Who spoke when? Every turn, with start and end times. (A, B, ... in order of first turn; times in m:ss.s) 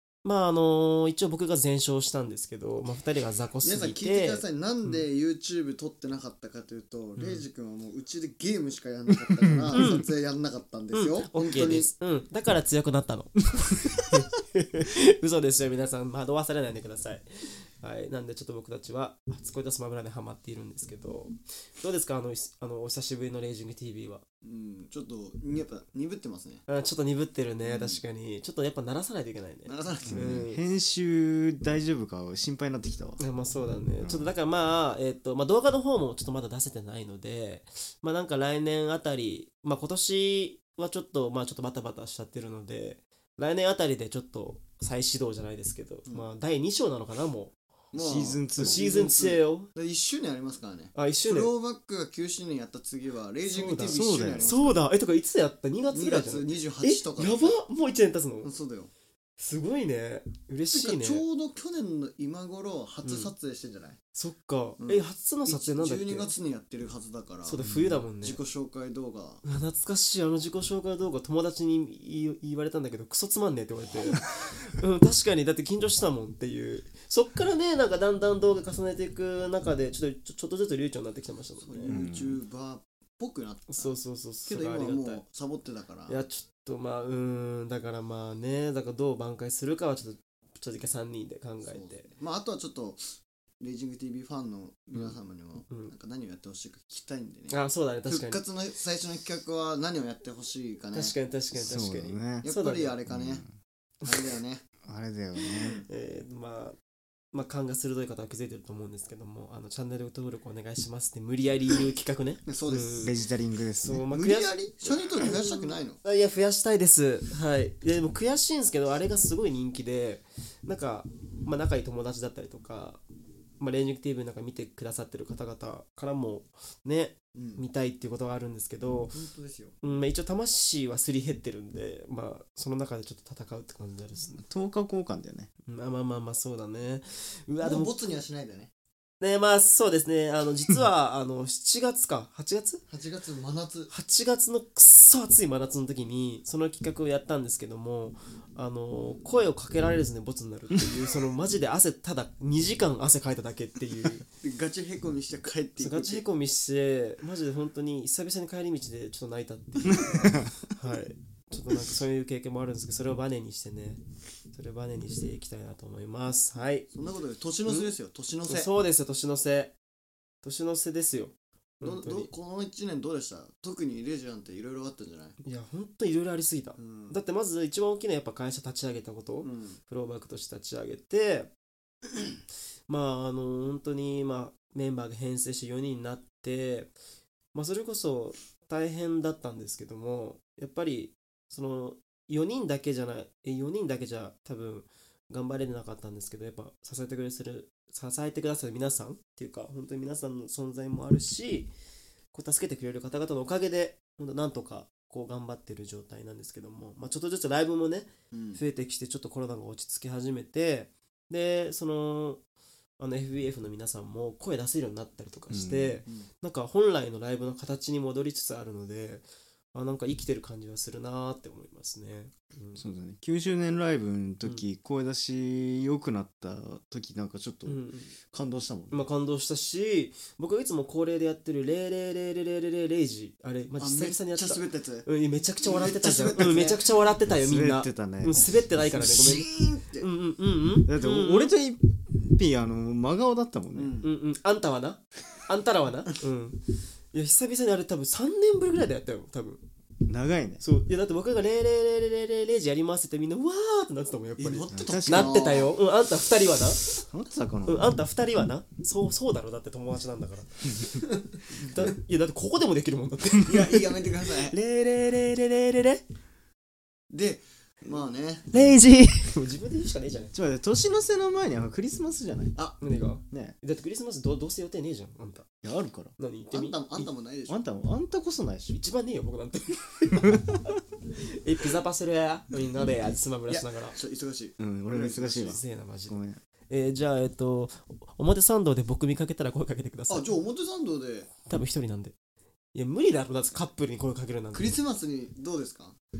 0:00.2-0:05.0 A
0:03.6-0:11.9 B
0:07.2-0:07.4 A
0:09.5-0:09.8 C
0:09.7-0:10.1 A
0:10.9-0:24.2 A
0:24.4-0:26.6 B
0:26.7-0:30.6 A
0:27.6-0:28.0 B
0:29.6-0:30.4 B
0:30.1-0:33.2 C
0:33.2-0:47.5 A
0:34.0-0:34.3 C
0:47.9-0:54.8 B
0:47.9-0:48.8 C
0:48.6-0:49.7 A
0:50.9-0:51.5 A
0:53.5-0:58.5 A
0:53.8-0:54.6 C
0:55.9-0:57.6 B
0:58.4-0:58.9 B
0:59.4-1:01.2 A
1:00.7-1:04.0 B
1:03.0-1:03.3 A
1:04.1-1:06.3 A
1:04.8-1:07.6 B
1:07.4-1:08.4 A
1:07.6-1:08.0 C
1:08.2-1:09.4 B
1:09.4-1:22.0 A
1:21.6-1:23.9 B
1:21.9-1:22.4 C
1:23.7-1:25.2 A
1:24.4-1:26.2 B
1:26.1-1:32.1 A
1:31.6-1:33.0 B
1:33.6-1:41.1 B
1:37.5-1:38.4 A
1:40.9-1:43.0 A
1:41.5-1:42.5 C
1:42.4-1:43.4 B
1:43.1-1:43.5 C
1:44.0-1:44.6 B
1:44.8-1:45.8 C
1:45.6-1:45.9 B
1:45.9-1:46.8 A
1:47.3-1:53.2 A
1:52.5-1:53.1 B
1:53.0-1:54.1 C
1:53.8-2:03.0 A
1:54.1-1:56.0 B
2:03.6-2:09.2 A
2:07.3-2:07.6 B
2:09.1-2:09.7 B
2:09.8-2:14.4 A
2:14.4-2:15.5 C
2:15.7-2:17.9 A
2:17.6-2:18.7 B
2:19.2-2:22.8 A
2:22.9-2:23.9 B
2:23.9-2:34.2 A
2:34.4-2:36.2 B
2:35.8-2:44.0 A
2:39.9-2:40.5 C
2:44.5-2:46.9 A
2:46.9-2:48.7 B
2:47.6-2:47.9 A
2:48.5-2:49.7 A
2:50.4-2:52.3 A
2:51.8-2:55.4 B
2:55.4-3:01.5 A
2:56.8-2:57.2 B
2:59.4-2:59.8 B
3:02.9-3:06.9 A
3:07.5-3:21.7 A
3:22.3-3:32.4 A
3:28.3-3:28.6 B
3:33.0-3:42.8 A
3:35.5-3:36.0 C
3:42.8-3:47.8 C
3:47.6-3:48.1 A
3:48.3-3:49.1 C
3:48.9-4:01.5 A
3:53.8-3:55.1 B
3:55.6-3:56.8 B
3:57.3-3:58.4 C
3:58.9-4:00.1 B
4:00.8-4:03.9 C
4:03.7-4:04.1 B
4:04.0-4:06.6 A
4:07.1-4:09.6 A
4:10.1-4:10.6 C
4:10.6-4:17.0 A
4:14.4-4:15.8 B
4:14.7-4:15.5 C
4:17.1-4:17.9 C
4:17.6-4:21.0 A
4:21.6-4:26.0 A
4:23.4-4:24.6 B
4:27.1-4:28.5 B
4:28.5-4:30.3 A
4:30.3-4:32.6 C
4:32.8-4:35.5 A
4:33.3-4:33.6 C
4:35.6-4:36.1 C
4:36.2-4:37.1 A
4:36.5-4:37.6 B
4:37.5-4:38.8 C
4:38.7-4:44.0 A
4:40.2-4:40.6 C
4:43.5-4:45.6 B
4:44.6-4:46.4 C
4:45.4-4:46.2 A
4:46.7-4:50.3 A
4:50.1-4:51.3 B
4:51.4-4:52.1 A
4:52.7-4:54.8 A
4:54.5-4:56.0 B